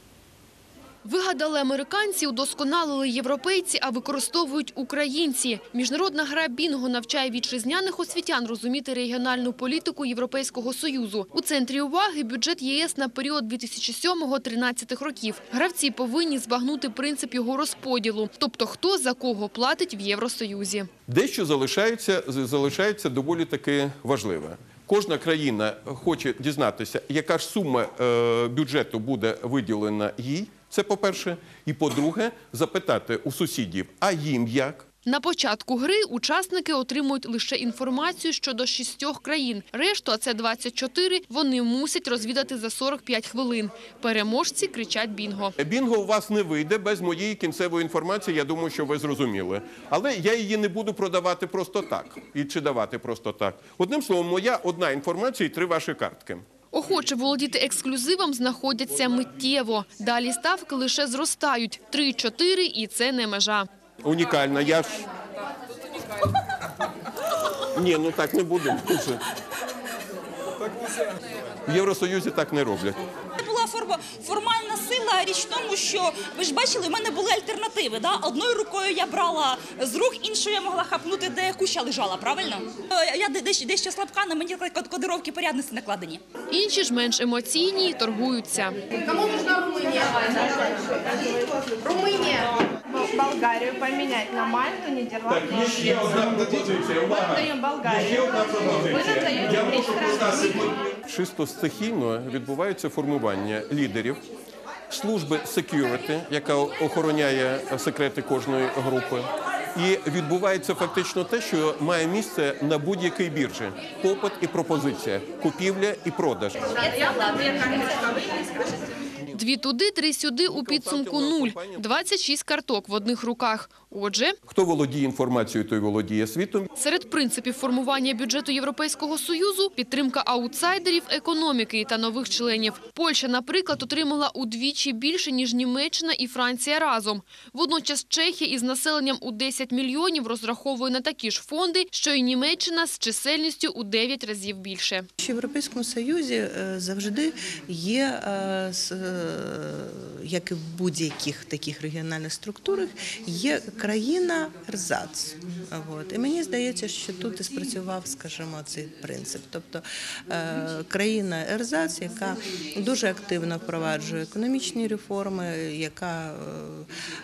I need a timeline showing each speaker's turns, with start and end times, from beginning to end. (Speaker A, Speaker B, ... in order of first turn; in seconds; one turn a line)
Speaker A: 1.0-20.9
Speaker B: 21.1-34.9
Speaker A: 35.0-45.5
Speaker B: 45.6-56.5
Speaker A: 56.7-63.7
Speaker B: 64.0-65.1
Speaker B: 67.7-69.2
Speaker B: 71.6-73.0
Speaker C: 73.4-86.2
Speaker A: 86.5-88.8
Speaker D: 88.9-96.2
Speaker B: 95.3-104.2
Speaker D: 97.1-100.0
Speaker B: 104.9-117.2
Speaker A: 119.3-124.3
Speaker B: 120.5-121.9
Speaker B: 124.5-126.7
Speaker A: 126.8-145.1
Speaker E: 145.2-166.9